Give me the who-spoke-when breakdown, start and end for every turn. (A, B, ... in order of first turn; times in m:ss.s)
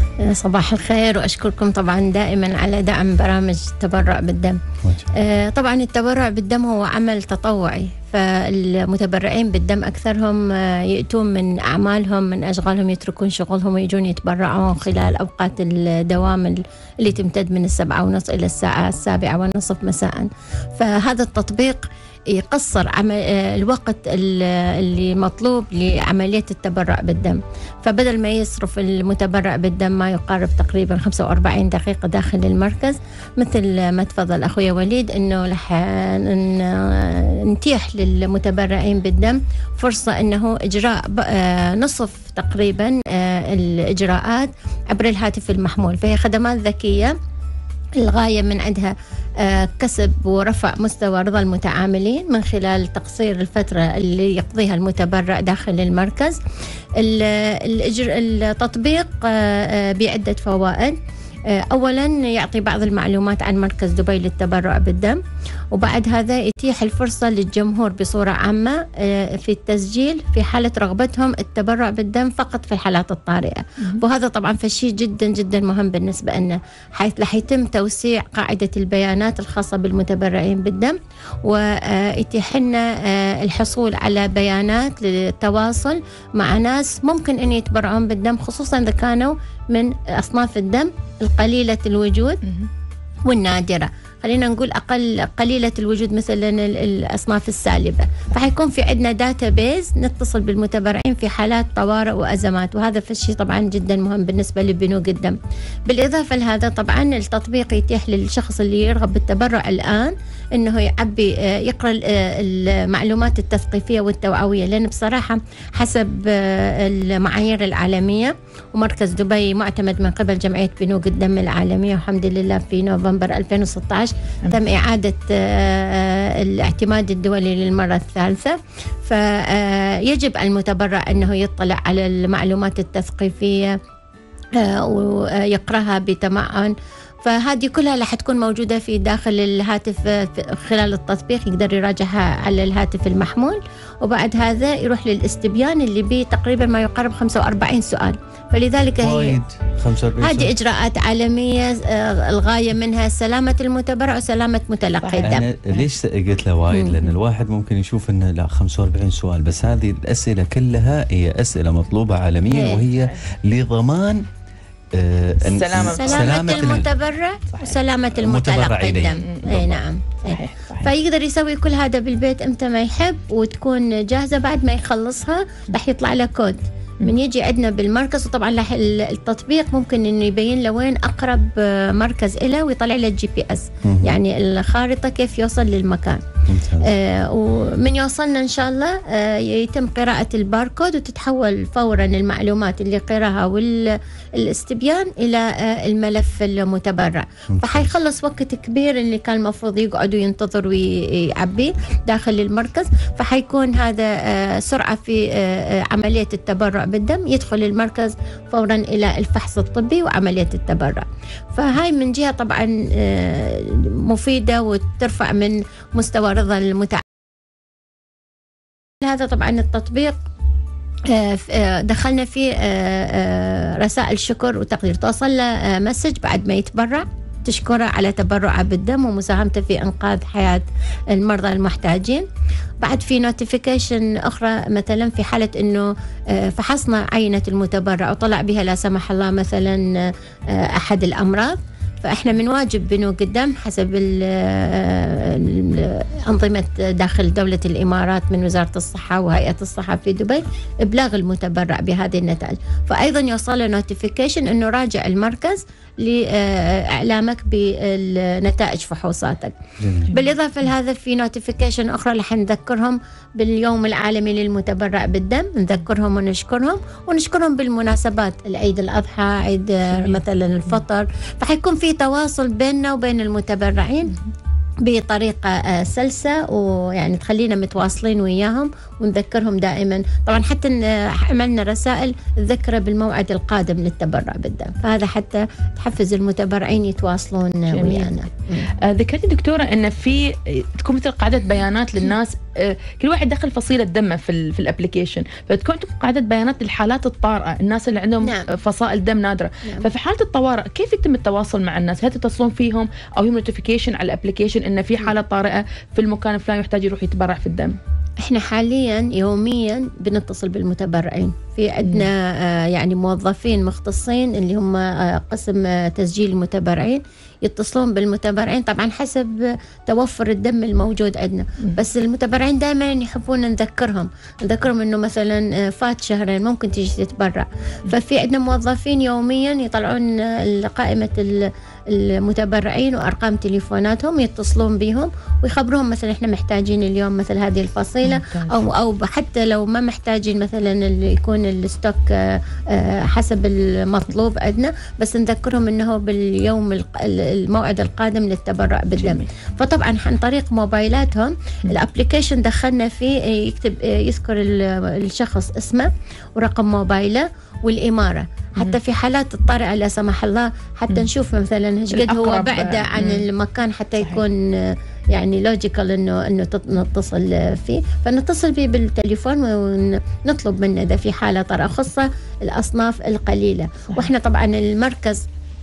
0:00.2-0:04.6 A
0:04.8-0:05.1 B
0:05.1-0:47.1 A
0:14.9-0:15.1 B
0:48.0-0:56.4 A
0:57.0-1:05.2 A
1:05.7-1:32.4 A
1:32.4-1:32.7 C
1:33.3-2:13.8 A
2:14.6-2:29.4 A
2:29.0-2:30.5 B
2:30.2-2:35.5 A
2:35.0-2:35.4 C
2:35.2-2:44.3 B
2:36.7-2:37.1 A
2:42.5-2:42.8 A
2:42.9-2:43.2 C
2:44.9-2:46.9 B
2:45.4-2:46.8 C
2:45.8-3:06.2 A
2:48.2-2:49.8 B
2:49.0-2:49.6 C
2:50.2-2:50.9 C
3:03.9-3:04.2 B
3:06.5-3:06.9 B
3:06.8-3:37.0 A
3:17.5-3:17.9 B
3:39.0-3:40.2 A
3:41.1-3:52.3 A
3:52.8-4:19.6 A
4:19.8-4:20.1 B
4:20.1-4:34.2 A
4:34.8-4:48.7 A
4:47.7-4:48.1 C
4:48.8-5:07.8 C
4:58.2-4:58.5 A
5:08.2-6:15.2 A
5:11.8-5:12.1 C
5:38.0-5:38.6 C
5:49.0-5:49.3 C
6:01.9-6:03.3 C